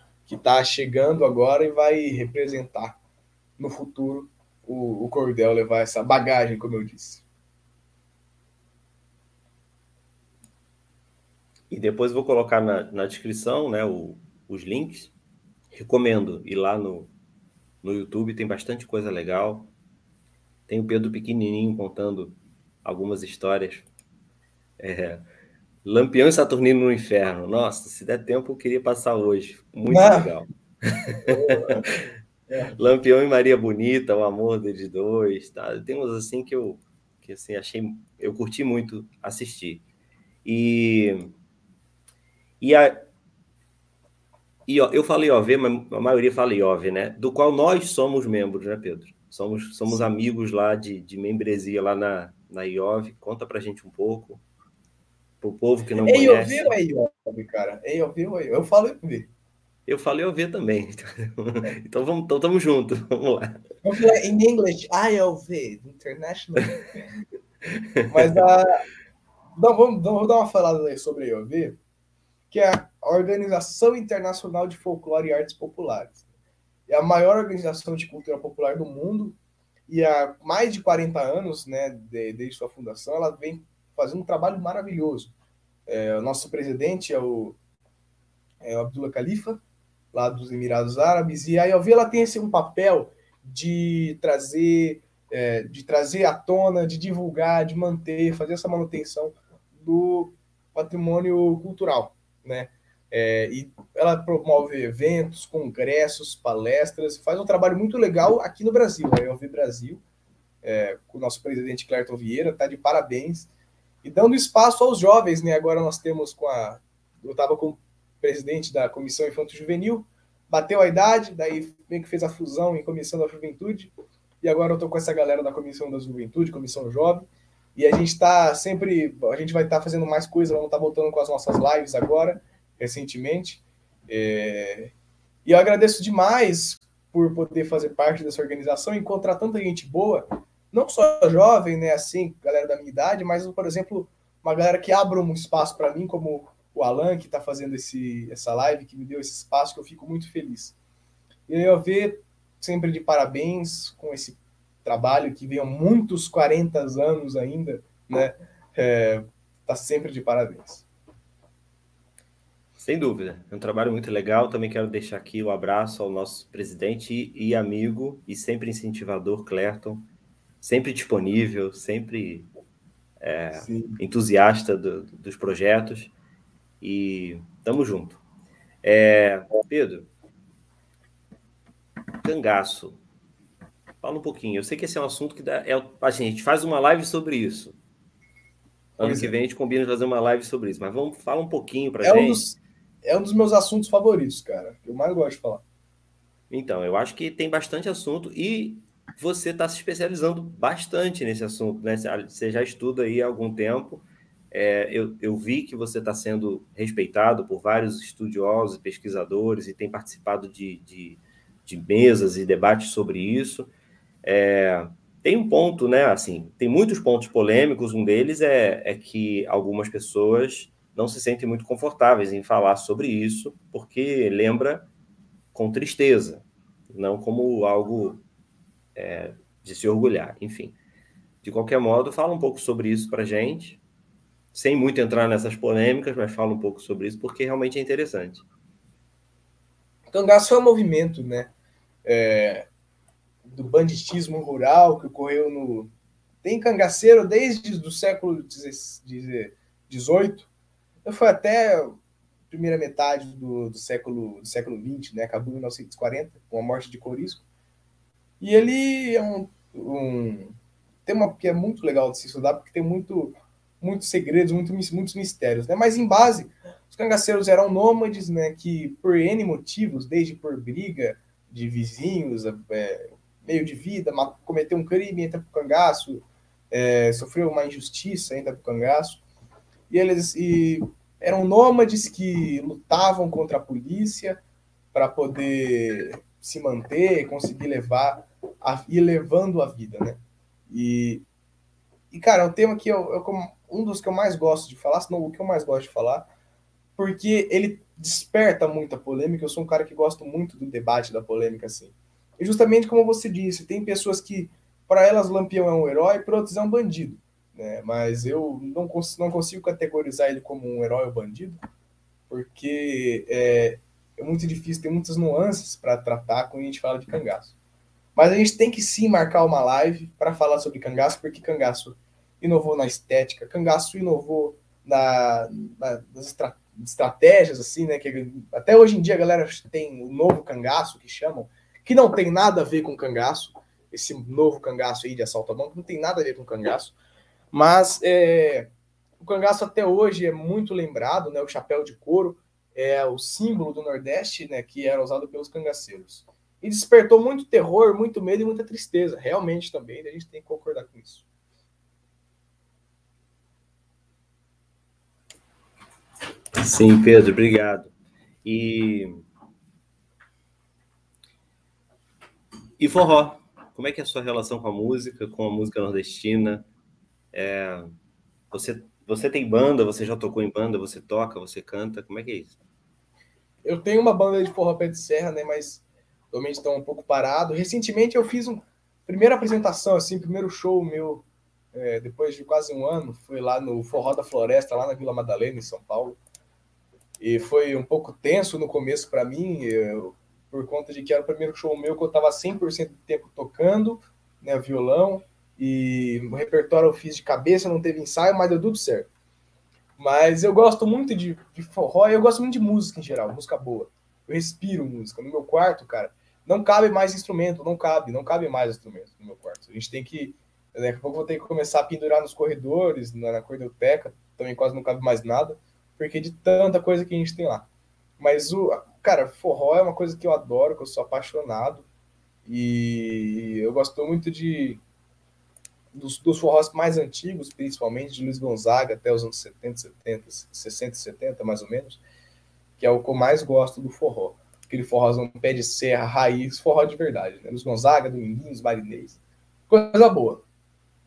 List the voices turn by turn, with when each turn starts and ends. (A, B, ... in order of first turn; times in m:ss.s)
0:00.3-0:03.0 A
0:03.6-0:07.2 A
0:11.7-0:15.1 B
0:15.7-0:17.1 B
0:17.8-0:19.7 B
0:20.7-0:23.9 B
0:24.8-0:25.2 B
0:25.8-0:30.5 B
0:29.9-0:30.3 A
0:31.1-0:32.1 B
0:31.3-0:31.9 A
0:32.5-0:32.8 A
0:32.8-0:39.8 B
0:40.4-0:41.4 B
0:42.6-0:43.1 B
0:44.7-0:54.4 B
0:55.4-0:56.7 B
0:56.0-0:59.3 A
0:59.9-1:03.6 B
1:03.8-1:07.0 A
1:08.1-1:08.8 A
1:09.6-1:11.8 A
1:12.5-1:16.2 A
1:16.9-1:19.4 A
1:19.9-1:25.3 A
1:25.9-1:27.6 A
1:28.6-1:29.6 A
1:30.1-1:50.0 A
1:50.6-1:53.5 A
1:54.0-2:14.9 A
2:15.4-2:30.8 A
2:31.5-2:40.8 A
2:42.8-2:50.1 B
2:50.6-2:52.5 B
2:53.2-2:56.1 B
2:53.5-2:54.0 A
2:56.8-2:58.2 B
2:58.8-3:00.1 B
3:02.2-3:03.0 B
3:04.0-3:07.8 B
3:09.0-3:09.3 A
3:09.0-3:12.4 B
3:12.0-3:15.6 A
3:16.5-3:33.7 B
3:34.2-3:44.9 B
3:45.5-3:48.2 B
3:49.0-3:50.8 B
3:51.4-3:53.8 B
3:54.5-3:58.4 B
4:00.1-4:01.5 A
4:02.0-4:02.7 A
4:03.5-4:05.9 A
4:06.4-4:10.5 A
4:11.0-4:12.0 A
4:12.5-4:17.4 A
4:18.4-4:20.6 A
4:21.1-4:39.2 A
4:39.9-4:44.4 A
4:44.9-4:51.2 A
4:52.1-4:56.3 A
4:57.0-5:11.6 A
5:12.3-5:17.5 A
5:18.2-5:36.9 A
5:37.5-5:38.7 A
5:39.2-5:51.3 A
5:56.6-5:57.9 B
5:58.4-5:59.2 B
6:02.8-6:06.7 B
6:07.3-6:08.0 B
6:08.5-6:12.6 B
6:13.6-6:26.2 A
6:27.2-6:39.1 A
6:40.0-6:57.7 A
6:58.2-7:01.9 A
7:02.5-7:04.8 A
7:05.9-7:12.0 A
7:12.8-7:19.2 A
7:19.7-7:20.4 A